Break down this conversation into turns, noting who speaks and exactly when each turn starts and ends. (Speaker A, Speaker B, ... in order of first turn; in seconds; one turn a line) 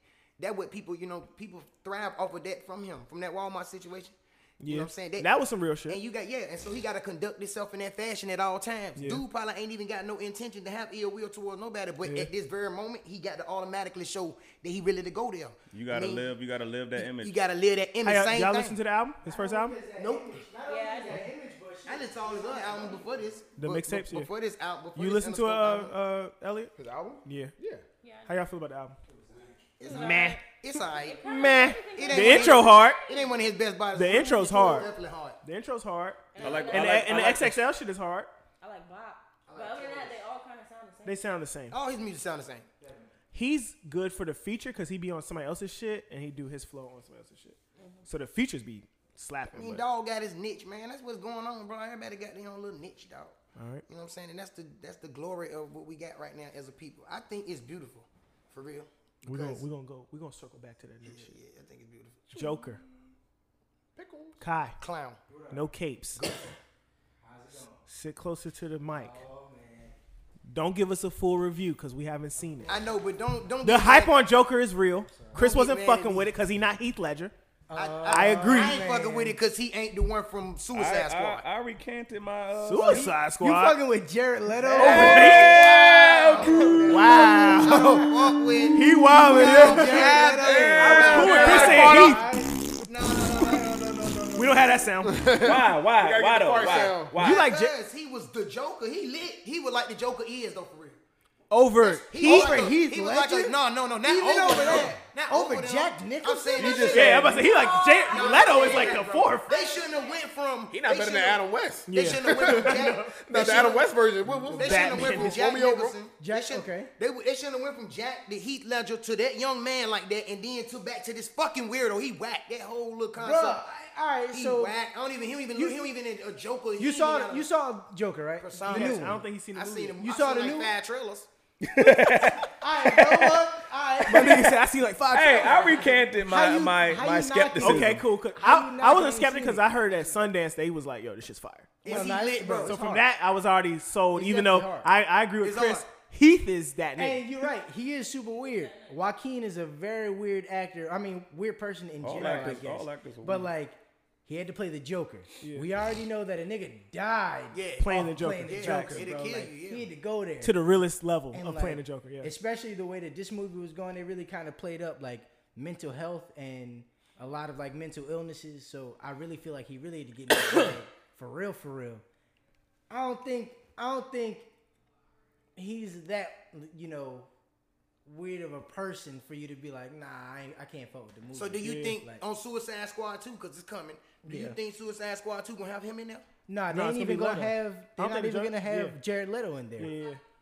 Speaker A: 0.4-5.3
Speaker B: 4.6-6.0
Speaker A: 5.8-16.3
Speaker B: 8.9-9.2
Speaker B: 12.0-12.3
Speaker C: 15.7-17.4
Speaker A: 16.9-18.8
Speaker B: 18.0-20.2
Speaker D: 19.2-23.1
Speaker E: 20.6-21.3
Speaker A: 21.9-25.9
Speaker B: 23.6-24.3
Speaker B: 24.9-26.7
Speaker F: 26.8-27.8
Speaker B: 27.2-27.5
Speaker E: 28.0-28.4
Speaker B: 28.2-29.0
Speaker D: 29.1-29.6
Speaker A: 29.8-35.4
Speaker E: 29.8-33.4
Speaker B: 29.9-30.4
Speaker B: 31.2-33.0
Speaker B: 33.9-34.9
Speaker B: 35.4-38.3
Speaker E: 36.3-37.2
Speaker C: 36.4-37.6
Speaker E: 38.6-41.2
Speaker D: 39.5-40.1
Speaker B: 41.0-41.8
Speaker A: 41.7-42.7
Speaker D: 42.8-43.1
Speaker B: 43.3-49.8
Speaker E: 47.8-48.0
Speaker A: 49.5-53.4
Speaker B: 53.5-53.8
Speaker A: 53.9-59.6
Speaker B: 59.2-61.3
Speaker A: 61.0-62.4
Speaker B: 62.3-62.8
Speaker F: 64.0-64.4
Speaker B: 64.4-64.8
Speaker A: 64.8-65.2
Speaker D: 65.3-65.7
Speaker B: 65.5-66.2
Speaker A: 66.2-66.5
Speaker D: 67.2-67.8
Speaker B: 67.8-69.2
Speaker D: 68.9-70.0
Speaker B: 70.5-72.8
Speaker D: 72.4-72.9
Speaker A: 72.7-74.3
Speaker B: 73.6-77.3
Speaker D: 75.1-75.5
Speaker A: 75.3-76.3
Speaker D: 77.7-79.4
Speaker A: 77.7-81.5
Speaker B: 78.0-78.8
Speaker C: 80.7-83.1
Speaker B: 82.6-83.8
Speaker D: 82.8-85.4
Speaker B: 84.7-85.7
Speaker C: 84.8-87.0
Speaker A: 84.8-92.2
Speaker D: 86.3-92.8
Speaker B: 86.8-88.1
Speaker B: 88.7-92.3
Speaker F: 90.0-92.4
Speaker C: 90.7-91.8
Speaker A: 92.7-94.6
Speaker B: 94.3-95.3
Speaker F: 95.0-97.1
Speaker C: 95.4-97.5
Speaker A: 96.7-101.0
Speaker B: 97.2-97.7
Speaker B: 101.5-102.7
Speaker A: 101.8-123.6
Speaker D: 102.1-107.3
Speaker B: 106.6-109.5
Speaker C: 106.6-107.2
Speaker E: 107.3-110.2
Speaker F: 110.7-116.0
Speaker B: 111.9-113.1
Speaker B: 114.5-115.4
Speaker D: 116.2-116.9
Speaker D: 123.1-124.8
Speaker A: 124.3-127.5
Speaker D: 125.5-125.9
Speaker D: 126.8-129.2
Speaker A: 128.4-131.3
Speaker B: 128.6-130.0
Speaker D: 130.0-130.7
Speaker C: 131.6-133.4
Speaker D: 131.8-134.6
Speaker B: 134.1-135.8
Speaker C: 135.1-138.1
Speaker D: 135.4-140.2
Speaker B: 137.6-142.0
Speaker A: 141.8-143.0
Speaker D: 141.8-143.0
Speaker B: 142.6-147.3
Speaker D: 144.1-144.9
Speaker A: 145.4-145.9
Speaker D: 147.0-160.6
Speaker E: 148.5-149.0
Speaker C: 152.0-153.5
Speaker B: 152.2-152.5
Speaker B: 155.4-155.7
Speaker A: 157.5-159.9
Speaker B: 157.8-159.1
Speaker B: 160.4-162.3
Speaker D: 161.3-172.0
Speaker D: 172.9-174.5
Speaker D: 175.6-177.3
Speaker D: 178.1-182.2
Speaker A: 181.3-186.3
Speaker B: 181.6-182.0
Speaker D: 184.2-184.6
Speaker D: 186.5-190.0
Speaker B: 186.7-189.0
Speaker B: 189.8-190.2
Speaker E: 189.9-190.2